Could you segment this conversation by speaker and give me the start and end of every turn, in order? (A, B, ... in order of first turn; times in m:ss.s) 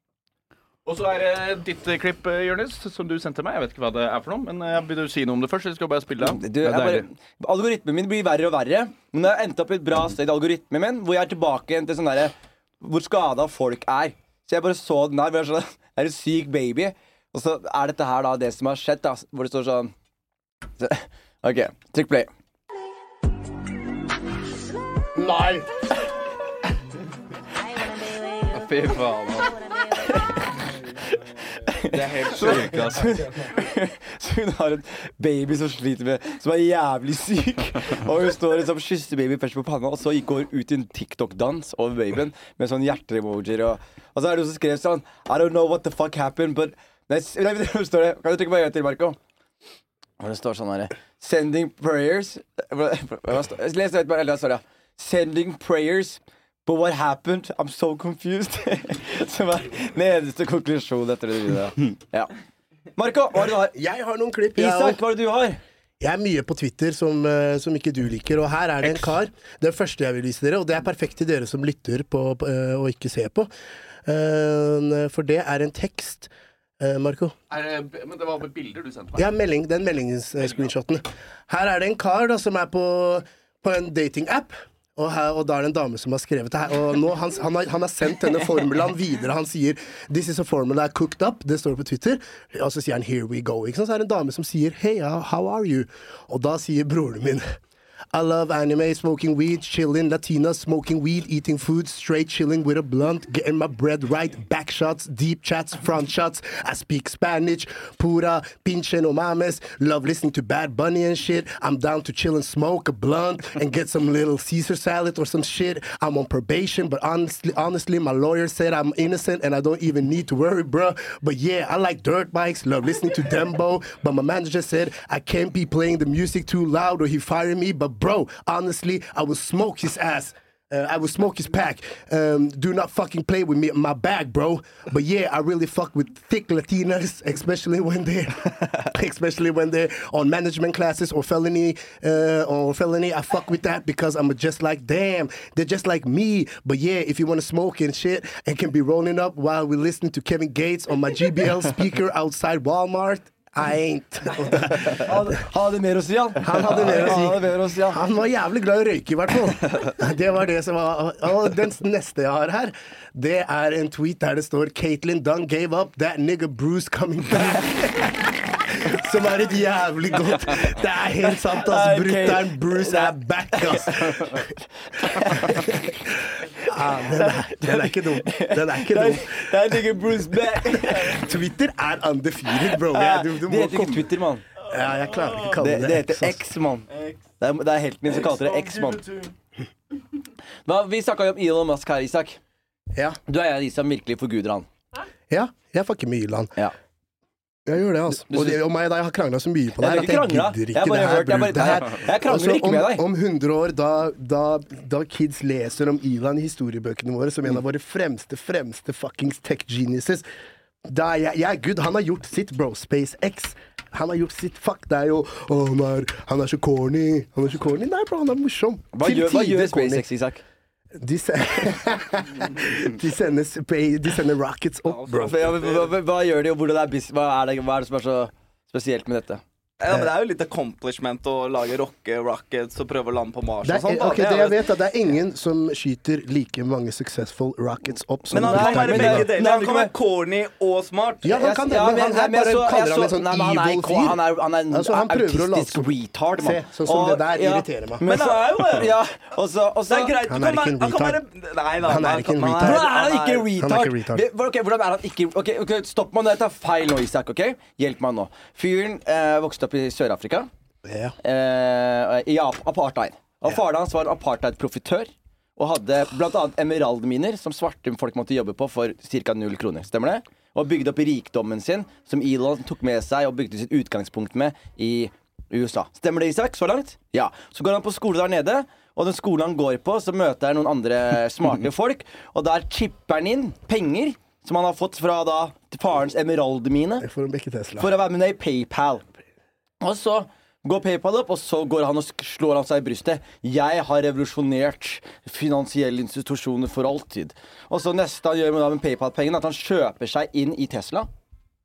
0:00.9-0:06.4 A
0:06.2-0:19.9 B
0:06.6-0:07.1 C
0:20.8-0:22.3 B
0:25.2-0:25.7 D
0:28.5-0:29.6 C
0:31.7-0:49.2 B
0:31.9-0:33.2 C
0:50.2-1:02.3 B
1:03.0-1:03.8 B
1:03.7-1:05.0 D
1:04.6-1:05.6 B
1:06.0-1:13.5 D
1:14.1-1:17.4 D
1:17.5-1:19.2 A
1:19.2-1:37.4 D
1:38.1-2:35.4 D
2:35.0-2:38.0 B
2:36.4-2:54.5 D
2:51.4-2:53.9 B
2:55.0-2:55.7 B
2:55.1-3:00.0 D
2:57.5-3:01.2 B
3:00.6-3:04.1 D
3:02.9-3:04.4 B
3:04.7-3:05.6 E
3:04.7-3:06.4 D
3:05.6-3:06.9 B
3:06.9-3:07.2 E
3:07.4-3:09.0 B
3:08.2-3:09.3 E
3:10.7-3:12.4 B
3:12.9-3:13.2 D
3:13.3-3:14.7 B
3:15.3-3:16.5 D
3:17.7-3:30.3 D
3:18.3-3:18.6 B
3:19.8-3:23.0 B
3:30.9-3:40.1 D
3:38.9-3:40.4 B
3:41.0-3:45.5 D
3:44.9-3:45.8 E
3:45.2-3:49.4 B
3:49.8-3:54.6 E
3:49.9-3:50.1 D
3:53.6-3:59.3 D
3:58.3-4:01.4 E
3:58.3-3:59.9 B
4:01.2-4:08.0 D
4:01.3-4:10.2 B
4:08.0-4:08.9 E
4:09.9-4:13.5 E
4:10.2-4:11.2 D
4:11.8-4:14.2 D
4:12.6-4:20.5 B
4:20.8-4:21.2 D
4:21.2-4:47.1 B
4:47.0-4:47.9 D
4:47.8-4:49.1 B
4:49.8-5:01.1 B